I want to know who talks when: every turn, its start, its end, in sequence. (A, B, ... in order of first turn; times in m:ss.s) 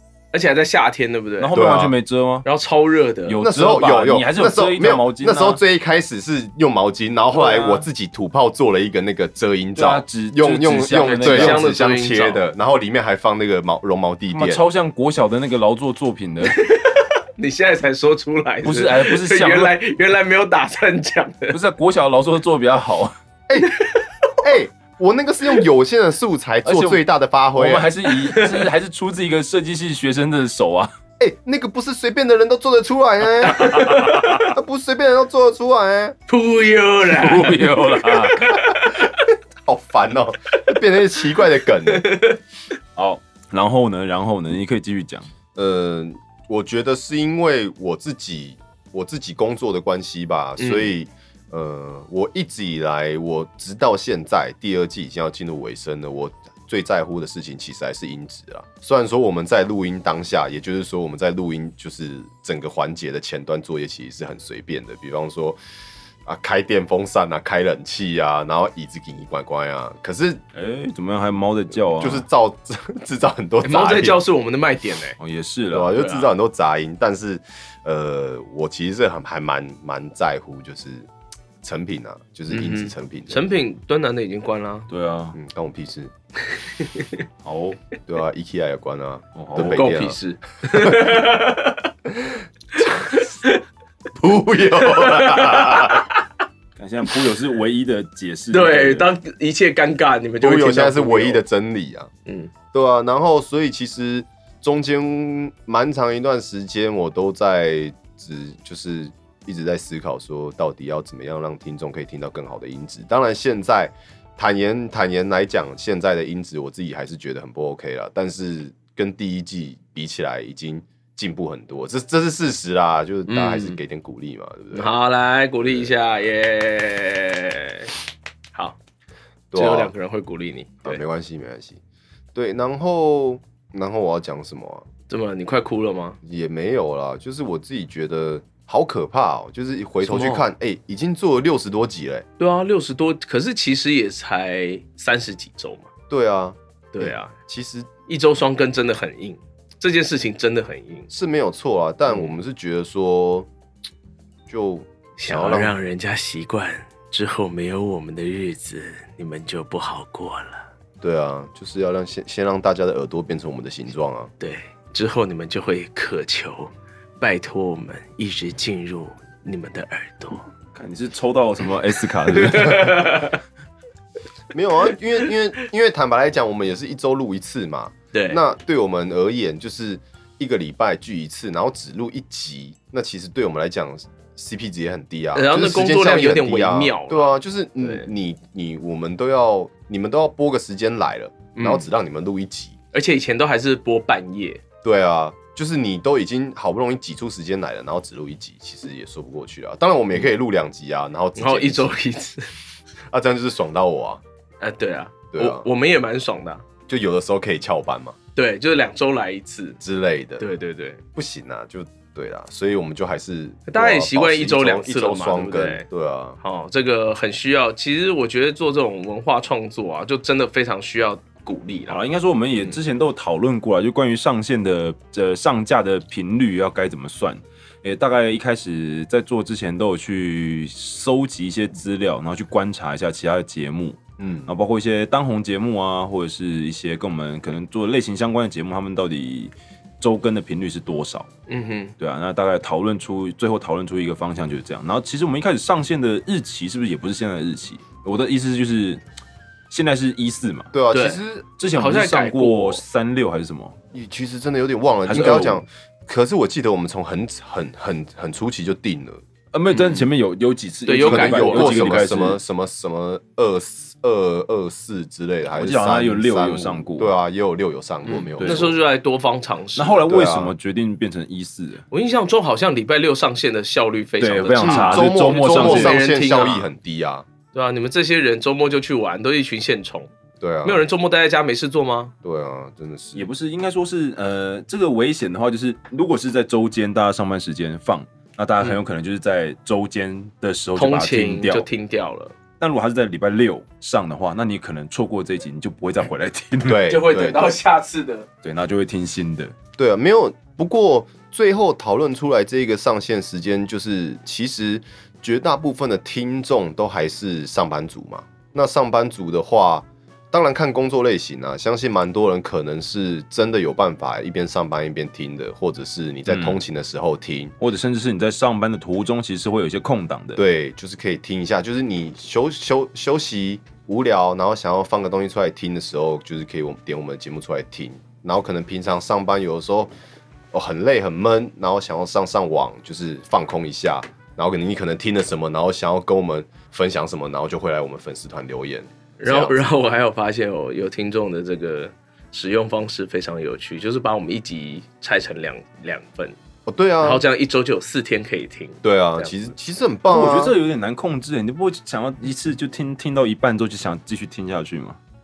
0:00.3-0:01.5 A
0:01.4-0:02.4 B
0:01.5-0:02.0 C
0:02.4-0:03.4 A
0:03.3-0:05.6 B
0:03.4-0:14.6 C
0:07.3-0:07.9 A
0:09.8-0:11.6 B
0:11.0-0:12.4 A
0:14.3-0:16.6 B
0:16.5-0:21.6 A
0:18.6-0:19.8 B
0:21.5-0:23.1 B
0:23.5-0:23.7 C
0:23.7-0:24.0 A
0:24.4-0:27.9 C
0:26.6-0:30.9 B
0:28.1-0:28.7 A
0:31.2-0:36.2 C
0:33.4-0:34.5 A
0:36.3-0:39.2 A
0:37.1-0:38.6 B
0:39.6-0:42.1 C
0:41.8-0:42.4 A
0:43.0-0:45.3 B
0:45.6-1:05.6 C
0:50.6-0:50.9 A
1:06.3-1:10.4 C
1:10.5-1:12.3 B
1:12.0-1:14.2 C
1:13.6-1:15.2 A
1:15.2-1:16.0 B
1:15.7-1:21.1 C
1:15.9-1:16.3 A
1:21.6-1:23.5 C
1:22.5-1:24.9 A
1:24.9-1:25.4 B
1:25.3-1:26.1 C
1:26.6-1:27.1 A
1:27.4-1:27.8 B
1:28.1-1:30.2 C
1:29.3-1:29.9 B
1:29.6-1:31.9 A
1:30.7-1:31.1 C
1:32.2-1:33.3 C
1:33.1-1:33.6 A
1:34.2-1:36.1 C
1:34.8-1:36.2 A
1:36.8-1:39.1 B
1:38.5-1:41.4 A
1:40.4-1:42.1 C
1:42.3-1:42.5 A
1:42.7-2:04.9 C
2:03.3-2:03.8 A
2:04.7-2:07.9 A
2:09.5-2:09.9 C
2:09.6-2:11.0 A
2:10.8-2:11.8 C
2:12.3-2:14.8 C
2:15.1-2:16.2 A
2:16.2-2:22.3 C
2:20.0-2:20.4 A
2:22.4-2:25.9 A
2:26.1-2:27.9 C
2:26.9-2:27.3 A
2:28.1-2:31.1 A
2:31.1-2:33.5 C
2:34.5-2:35.7 C
2:35.2-2:40.7 A
2:41.0-2:44.3 C
2:44.4-2:50.4 A
2:50.7-2:53.3 B
2:52.3-2:53.4 A
2:54.5-3:12.8 C
2:58.1-2:58.4 A
3:05.3-3:08.1 A
3:11.6-3:11.9 A
3:12.9-3:14.6 A
3:14.8-3:21.9 C
3:21.4-3:22.5 A
3:23.1-3:24.2 C
3:24.6-3:26.6 A
3:25.3-3:25.7 C
3:26.9-3:28.2 C
3:28.4-3:29.8 A
3:29.8-3:30.4 C
3:30.4-3:31.0 A
3:31.2-3:36.4 C
3:33.7-3:35.9 A
3:36.4-3:42.0 A
3:41.9-4:01.3 B
3:54.2-3:54.5 C
4:01.5-4:01.9 A
4:02.0-4:09.0 B
4:09.7-4:10.7 B
4:10.7-4:11.5 C
4:10.9-4:12.8 A
4:11.6-4:13.8 B
4:13.9-4:19.2 C
4:15.1-4:15.6 B
4:19.5-4:22.4 B
4:19.7-4:20.0 A
4:20.8-4:22.0 A
4:21.0-4:28.7 C
4:25.5-4:27.1 B
4:28.0-4:30.1 A
4:28.4-4:28.7 B
4:29.8-4:31.8 B
4:30.1-4:30.6 C
4:31.9-4:36.7 A
4:34.2-4:36.0 B
4:34.6-4:37.3 C
4:37.5-4:40.1 A
4:40.4-4:40.8 C
4:40.6-4:42.1 A
4:42.2-4:43.3 C
4:43.2-4:51.7 B
4:50.8-4:52.3 A
4:52.6-4:56.9 B
4:56.6-4:57.5 C
4:56.9-4:58.3 A
4:58.4-4:59.5 B
4:59.8-5:17.5 C
5:16.3-5:16.6 B
5:17.6-5:20.4 B
5:20.4-5:29.9 C
5:30.5-5:39.6 C
5:39.2-5:46.4 A
5:46.7-5:47.2 C
5:47.0-5:49.5 A
5:48.8-5:50.6 C
5:50.1-5:55.0 B